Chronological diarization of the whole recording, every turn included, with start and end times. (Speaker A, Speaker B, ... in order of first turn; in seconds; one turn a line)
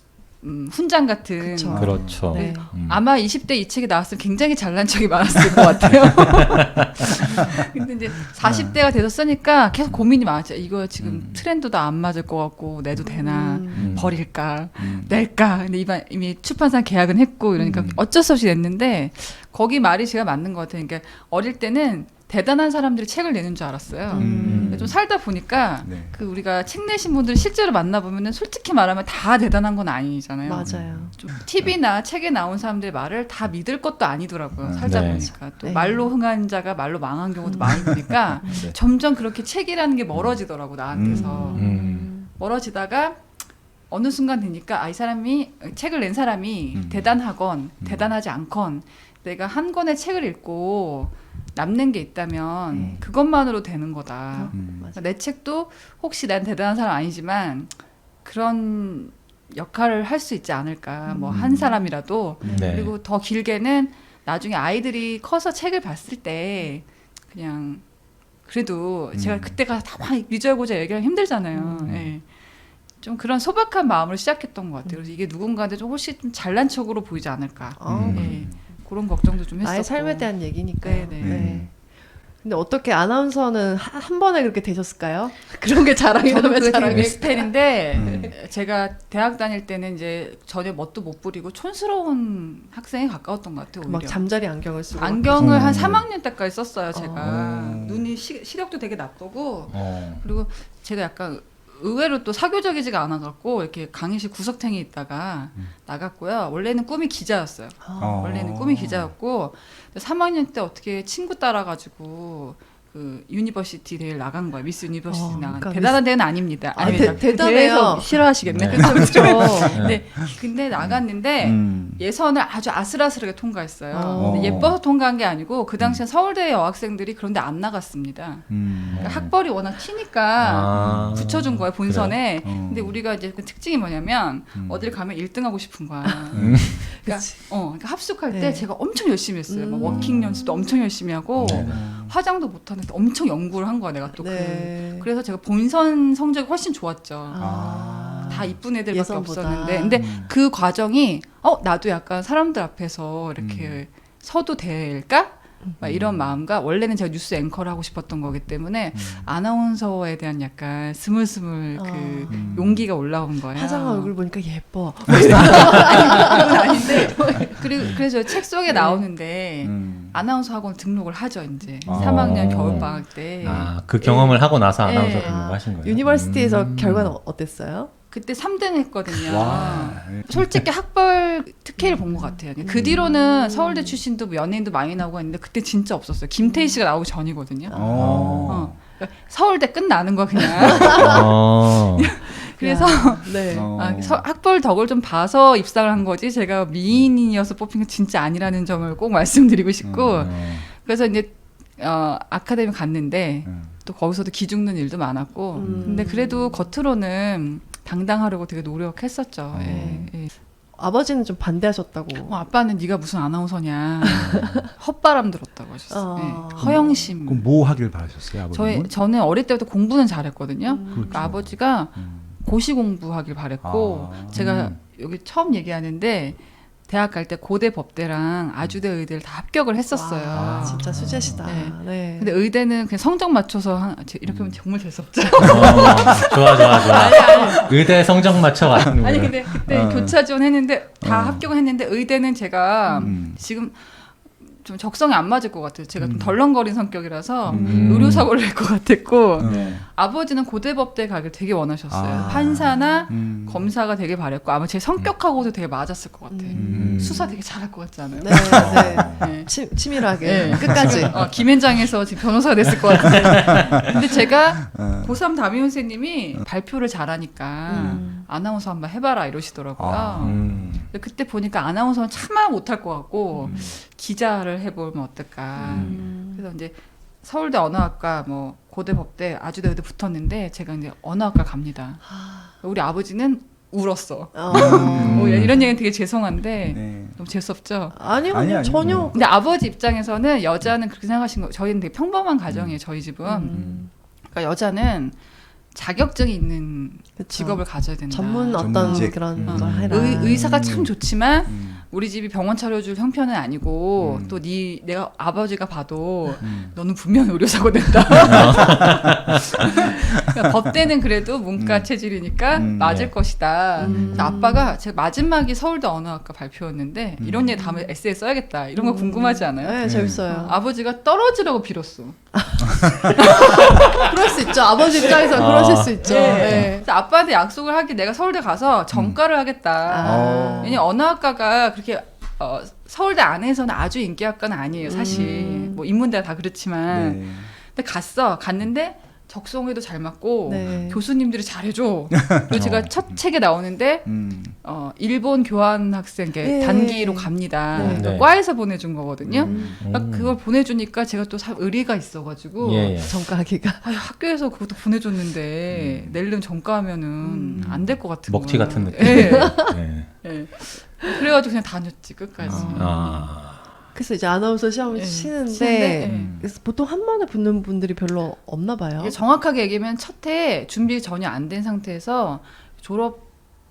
Speaker A: 0.4-43.3
Speaker B: 1.4-2.7
Speaker C: 1.7-2.3
Speaker D: 1.7-3.0
Speaker C: 8.4-8.8
Speaker C: 11.0-11.5
Speaker B: 13.0-13.9
Speaker C: 13.7-15.2
Speaker D: 13.8-14.1
Speaker B: 17.6-18.0
Speaker C: 17.7-18.0
Speaker B: 24.1-24.9
Speaker C: 24.1-25.1
Speaker D: 24.4-24.9
Speaker C: 25.6-26.2
Speaker B: 30.4-31.1
Speaker C: 30.6-31.6
Speaker C: 34.6-35.3
Speaker D: 34.8-35.3
Speaker B: 35.5-36.1
Speaker B: 37.5-37.8
Speaker C: 37.6-38.8
Speaker B: 38.4-38.7
Speaker C: 40.1-40.4
Speaker C: 40.9-41.6
Speaker B: 41.0-42.3
Speaker D: 41.5-42.1
Speaker A: 43.9-67.8
Speaker C: 46.7-48.1
Speaker B: 52.7-53.0
Speaker C: 52.7-53.0
Speaker B: 54.3-55.0
Speaker C: 54.5-54.9
Speaker B: 61.1-61.8
Speaker C: 61.3-61.6
Speaker B: 62.4-62.8
Speaker D: 62.4-62.9
Speaker A: 68.5-72.3
Speaker C: 69.1-69.6
Speaker B: 71.5-71.9
Speaker C: 71.9-72.1
Speaker A: 73.0-81.5
Speaker B: 77.8-78.5
Speaker C: 77.9-78.6
Speaker D: 77.9-78.4
Speaker B: 79.6-81.8
Speaker C: 81.2-81.7
Speaker B: 82.3-87.5
Speaker A: 86.2-94.3
Speaker D: 86.9-87.2
Speaker C: 87.9-88.4
Speaker B: 93.8-95.9
Speaker A: 94.9-147.4
Speaker D: 95.4-96.0
Speaker B: 96.9-97.4
Speaker C: 97.2-98.1
Speaker D: 99.7-100.2
Speaker B: 107.8-108.3
Speaker C: 108.0-109.1
Speaker B: 115.1-119.8
Speaker D: 118.5-119.0
Speaker C: 118.8-120.3
Speaker D: 119.7-120.0
Speaker C: 121.4-122.0
Speaker B: 123.9-124.7
Speaker C: 124.2-124.8
Speaker C: 128.5-129.2
Speaker D: 128.9-129.3
Speaker D: 130.4-132.2
Speaker C: 130.7-131.6
Speaker C: 132.4-133.0
Speaker C: 134.5-135.0
Speaker C: 136.3-136.9
Speaker D: 136.4-136.8
Speaker B: 136.7-137.5
Speaker B: 138.3-138.7
Speaker B: 139.5-140.7
Speaker C: 139.8-140.3
Speaker C: 141.4-142.2
Speaker D: 141.4-141.8
Speaker B: 144.1-145.1
Speaker B: 147.3-150.1
Speaker C: 147.4-148.6
Speaker A: 148.3-164.1
Speaker C: 149.9-150.3
Speaker C: 153.4-153.8
Speaker C: 155.8-156.4
Speaker C: 158.9-159.3
Speaker B: 161.8-162.7
Speaker C: 162.3-162.9
Speaker B: 163.5-168.0
Speaker A: 165.1-173.7
Speaker D: 165.6-166.0
Speaker B: 168.7-169.0
Speaker C: 169.6-170.2
Speaker C: 171.8-172.6
Speaker D: 171.9-177.2
Speaker B: 172.7-173.1
Speaker B: 174.0-174.4
Speaker A: 174.8-175.4
Speaker B: 175.1-177.9
Speaker A: 178.1-187.8
Speaker C: 179.1-180.7
Speaker D: 179.3-179.9
Speaker B: 181.8-184.0
Speaker D: 182.7-183.1
Speaker B: 186.4-186.8
Speaker B: 187.7-188.1
Speaker C: 187.7-188.8
Speaker D: 187.9-188.6
Speaker A: 188.4-210.3
Speaker B: 190.8-191.2
Speaker D: 190.8-192.1
Speaker B: 192.6-193.7
Speaker C: 193.5-194.3
Speaker C: 199.8-200.3
Speaker D: 200.2-200.7
Speaker C: 203.4-203.8
Speaker B: 205.5-206.7
Speaker C: 205.6-206.1
Speaker C: 209.5-210.1
Speaker B: 209.6-210.1
Speaker B: 210.8-212.3
Speaker A: 212.2-217.5
Speaker B: 214.0-214.6
Speaker C: 214.4-214.6
Speaker B: 215.9-217.1
Speaker C: 216.6-218.9
Speaker A: 218.5-230.9
Speaker B: 220.6-221.3
Speaker C: 220.9-222.4
Speaker C: 223.6-224.5
Speaker D: 224.3-224.8
Speaker B: 229.9-232.3
Speaker C: 230.3-231.5
Speaker D: 230.8-231.4
Speaker A: 231.4-238.0
Speaker C: 234.3-234.6
Speaker D: 235.4-239.5
Speaker C: 235.5-236.1
Speaker B: 236.8-237.6
Speaker C: 238.7-239.0
Speaker A: 239.0-288.0
Speaker C: 239.6-240.3
Speaker C: 241.0-241.5
Speaker B: 242.9-243.2
Speaker C: 243.0-243.4
Speaker C: 246.0-246.4
Speaker C: 247.5-248.3
Speaker D: 247.5-248.3
Speaker C: 249.4-249.9
Speaker D: 249.4-249.8
Speaker C: 251.9-253.7
Speaker B: 252.1-253.1
Speaker B: 256.3-257.4
Speaker C: 256.5-257.2
Speaker D: 256.7-257.3
Speaker B: 258.2-261.2
Speaker D: 258.5-259.4
Speaker C: 260.4-261.0
Speaker D: 260.5-261.3
Speaker C: 263.1-263.5
Speaker D: 263.2-264.0
Speaker C: 264.6-265.2
Speaker B: 267.7-268.3
Speaker C: 267.7-268.0
Speaker C: 269.8-270.8
Speaker D: 270.2-270.9
Speaker B: 273.4-273.7
Speaker C: 273.4-273.7
Speaker B: 275.6-276.4
Speaker C: 275.6-276.0
Speaker B: 282.1-282.5
Speaker B: 284.4-285.8
Speaker C: 284.5-285.6
Speaker C: 286.7-287.2
Speaker B: 287.9-289.3
Speaker C: 288.3-289.1
Speaker A: 289.1-293.6
Speaker C: 292.5-292.8
Speaker B: 293.2-293.9
Speaker C: 293.5-293.9
Speaker A: 294.3-295.2
Speaker A: 295.7-322.2
Speaker B: 297.2-300.4
Speaker C: 298.6-301.8
Speaker D: 299.4-300.2
Speaker C: 304.0-304.4
Speaker C: 306.4-306.8
Speaker D: 308.3-309.3
Speaker C: 311.6-311.9
Speaker C: 312.4-313.1
Speaker B: 313.8-314.8
Speaker C: 313.8-314.4
Speaker C: 317.2-317.6
Speaker B: 317.6-317.9
Speaker B: 318.8-320.6
Speaker C: 319.8-320.4
Speaker B: 322.3-326.9
Speaker C: 322.7-323.2
Speaker A: 323.2-324.2
Speaker D: 325.2-326.7
Speaker A: 326.0-353.0
Speaker C: 328.9-329.2
Speaker B: 329.9-330.9
Speaker C: 330.0-330.8
Speaker B: 334.9-335.8
Speaker C: 335.0-335.5
Speaker C: 336.9-337.5
Speaker B: 340.5-341.0
Speaker C: 340.6-341.0
Speaker C: 342.1-343.2
Speaker D: 342.5-342.9
Speaker C: 344.1-344.6
Speaker B: 346.4-348.1
Speaker D: 347.8-348.3
Speaker C: 349.2-349.8
Speaker B: 349.4-349.8
Speaker D: 349.8-350.4
Speaker D: 352.6-353.1
Speaker B: 353.0-353.9
Speaker A: 353.8-363.3
Speaker C: 355.7-356.2
Speaker B: 357.2-357.9
Speaker C: 357.6-358.0
Speaker D: 358.3-360.2
Speaker B: 359.0-359.8
Speaker C: 362.4-362.9
Speaker B: 362.5-362.9
Speaker D: 362.7-363.7
Speaker B: 363.9-369.2
Speaker A: 364.9-366.4
Speaker C: 366.0-366.5
Speaker A: 369.0-373.3